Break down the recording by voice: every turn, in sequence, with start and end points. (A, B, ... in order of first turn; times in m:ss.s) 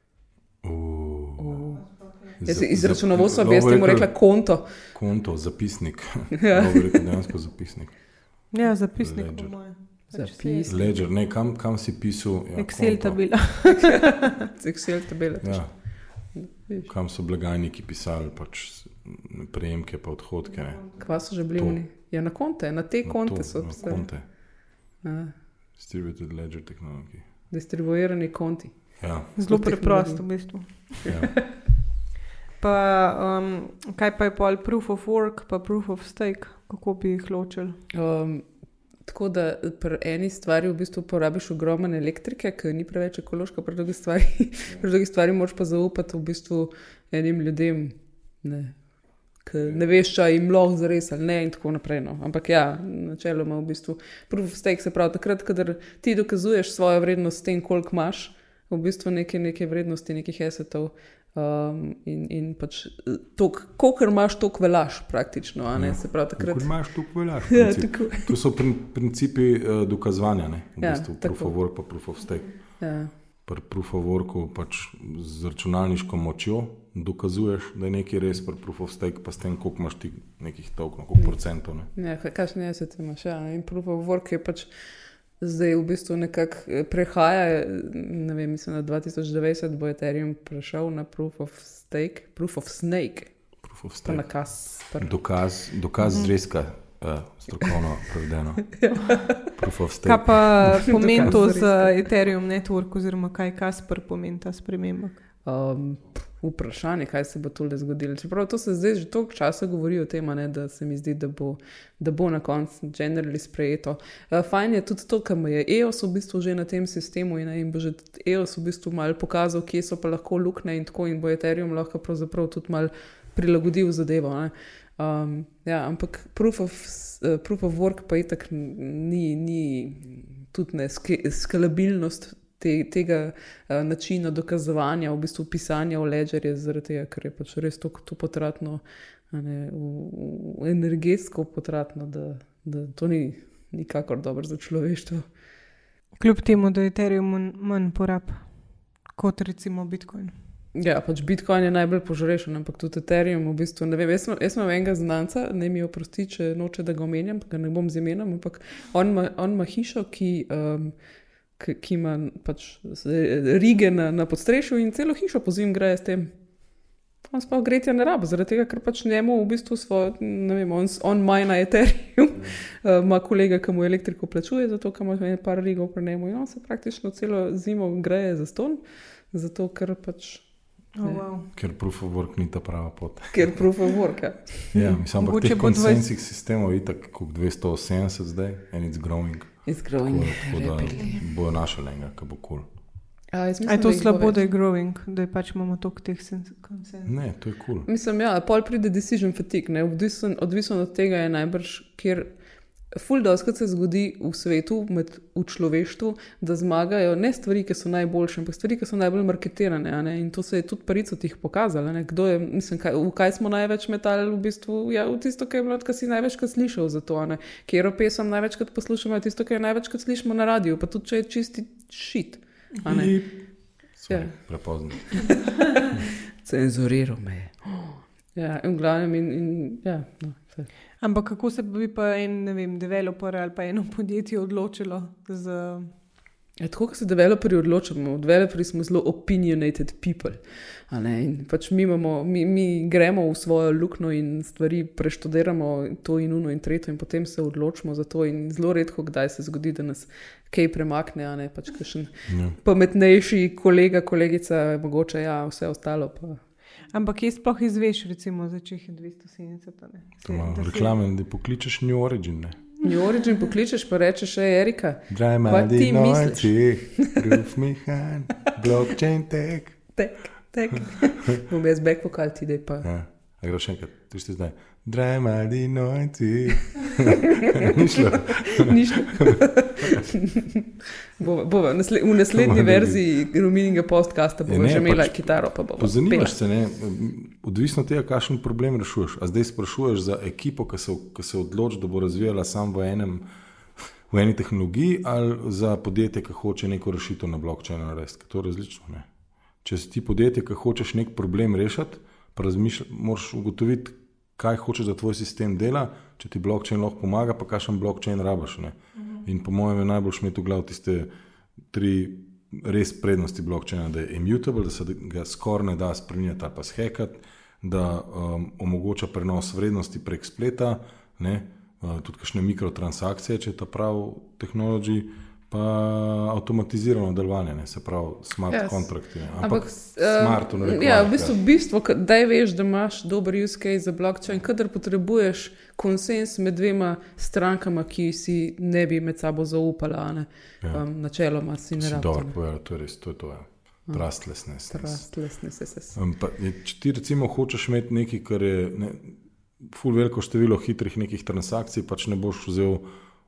0:00.6-0:01.7 A
0:01.4-0:04.7 B
0:01.9-0:02.3 C
0:02.4-0:09.7 A
0:06.4-0:07.1 B
0:08.5-0:10.9 C
0:10.1-0:10.9 B
0:10.6-0:13.5 A
0:12.6-0:14.2 C
0:13.9-0:16.9 B
0:15.4-0:16.3 A
0:16.9-0:21.8 A
0:21.0-0:25.4 B
0:23.0-0:24.3 A
0:25.8-0:27.3 A
0:27.5-0:30.9 B
0:29.0-0:29.3 A
0:29.4-0:31.1 C
0:31.1-0:31.5 A
0:32.6-0:37.8 C
0:37.9-0:38.5 B
0:39.0-1:08.4 B
1:05.7-1:21.9 A
1:10.8-1:11.6 B
1:12.8-1:13.1 B
1:21.9-1:24.7 B
1:25.4-1:35.2 B
1:33.6-1:38.9 A
1:38.8-1:39.5 B
1:39.5-1:41.4 A
1:40.0-1:45.2 C
1:40.9-1:42.0 B
1:45.4-2:25.3 B
2:26.2-2:30.3 C
2:30.8-2:41.0 B
2:41.5-2:46.5 B
2:47.2-3:01.2 B
3:01.0-3:01.5 C
3:01.6-3:03.7 A
3:03.3-3:04.8 B
3:04.7-3:12.7 A
3:05.2-3:06.1 C
3:09.7-3:11.2 B
3:13.3-3:14.4 B
3:13.7-3:17.1 C
3:17.1-3:17.9 A
3:17.9-3:22.4 B
3:22.9-3:45.9 B
3:42.9-3:45.5 A
3:46.4-3:50.7 B
3:51.0-3:55.9 C
3:56.6-4:16.4 B
4:12.3-4:12.6 A
4:16.9-4:21.0 C
4:20.2-4:22.7 A
4:22.8-4:27.2 B
4:25.1-4:29.8 A
4:30.0-4:32.9 B
4:32.8-4:39.4 A
4:38.4-4:40.7 B
4:41.2-4:46.3 B
4:42.3-4:43.0 A
4:44.5-4:53.2 A
4:53.8-4:59.1 A
4:59.6-5:11.1 A
5:09.0-5:09.2 C
5:11.7-5:31.4 A
5:28.5-5:42.4 B
5:41.8-5:45.1 A
5:43.9-5:46.0 B
5:46.0-5:52.9 A